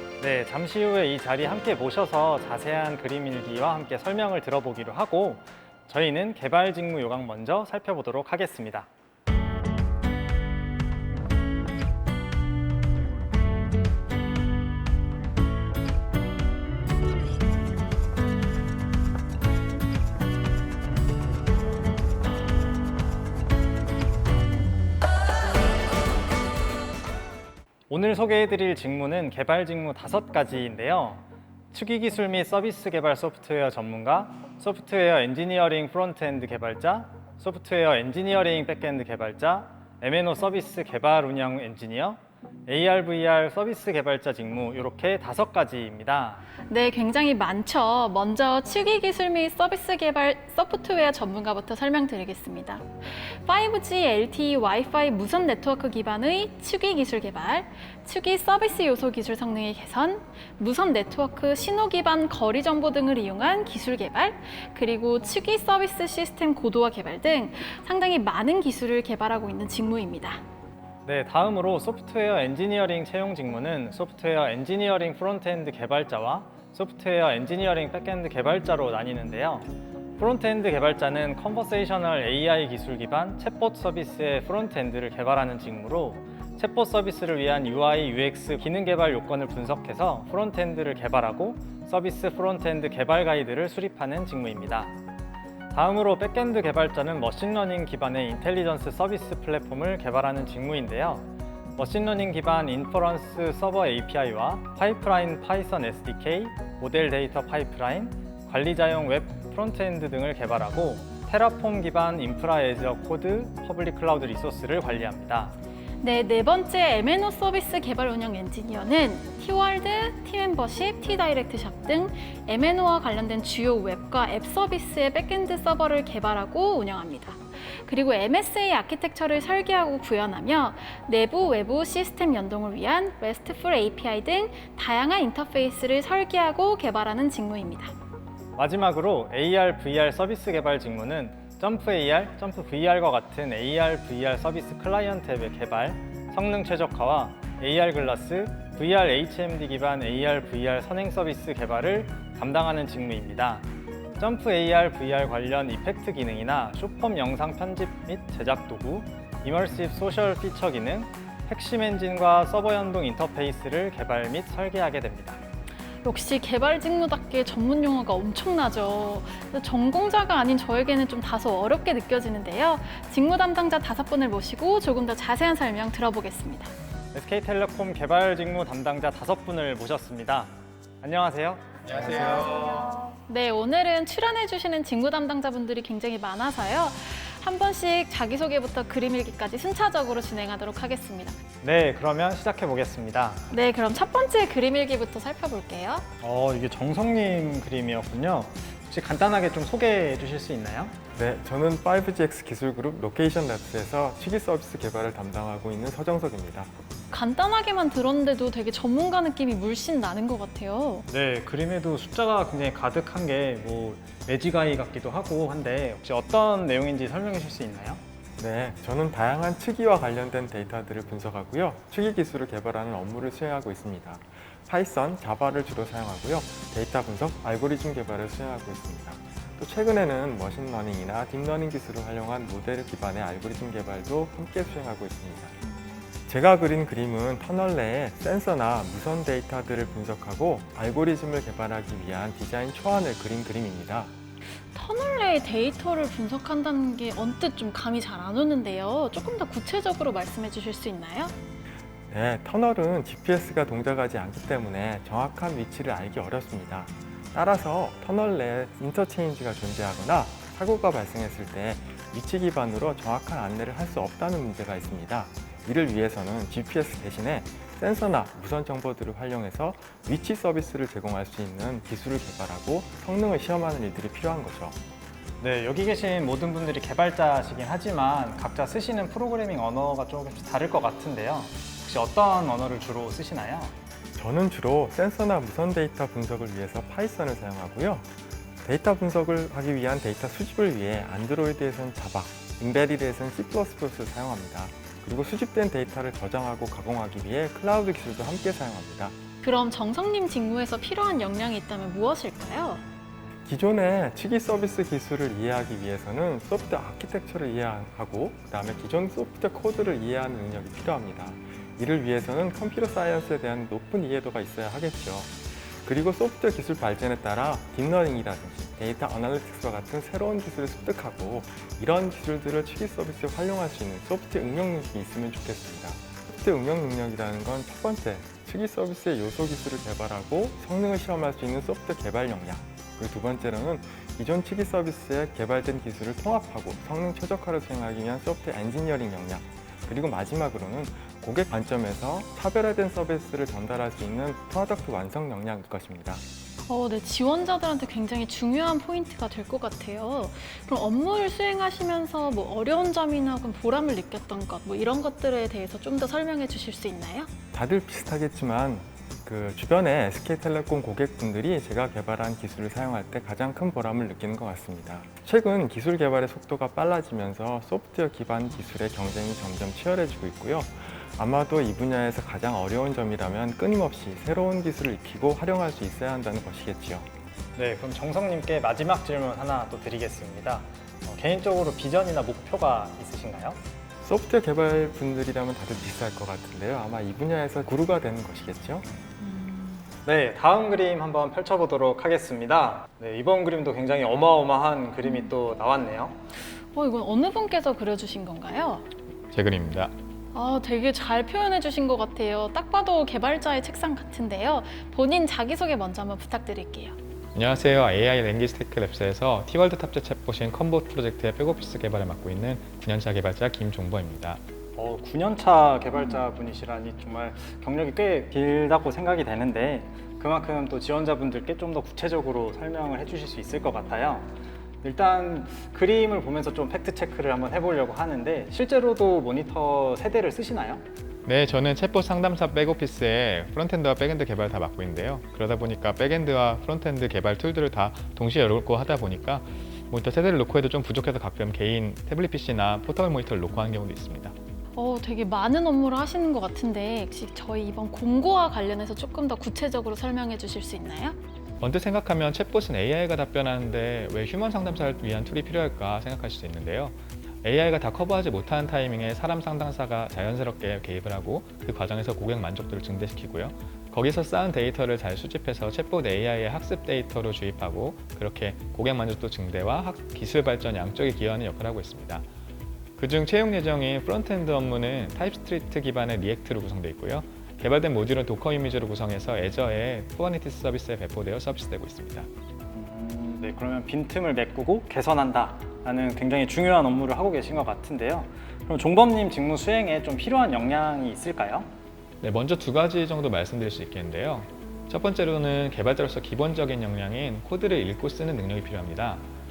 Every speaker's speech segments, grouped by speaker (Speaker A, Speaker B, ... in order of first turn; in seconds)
Speaker A: 0.2-8.9, 27.9-46.4, 71.0-94.9, 95.7-115.5, 138.6-153.7, 154.2-165.4, 177.1-182.9, 191.6-193.5, 196.2-200.9, 211.1-218.0, 275.4-283.7, 377.6-383.6, 390.0-396.2, 414.8-430.8, 482.7-491.7
Speaker B: 46.7-70.4, 116.0-137.9, 166.0-176.7, 183.3-191.4, 193.5-196.1, 207.1-211.1, 244.7-251.3, 299.4-302.8, 346.7-357.3, 396.7-398.9, 400.3-406.9, 444.7-451.2
Speaker C: 181.9-182.9, 399.3-399.9, 407.3-414.4, 431.2-444.3, 451.6-472.2, 473.0-482.3, 492.2-499.2
Speaker D: 201.1-206.7, 218.4-235.6, 236.3-244.1, 252.1-274.8, 284.1-288.1, 288.6-299.2, 303.4-346.2, 357.5-377.1, 384.0-388.8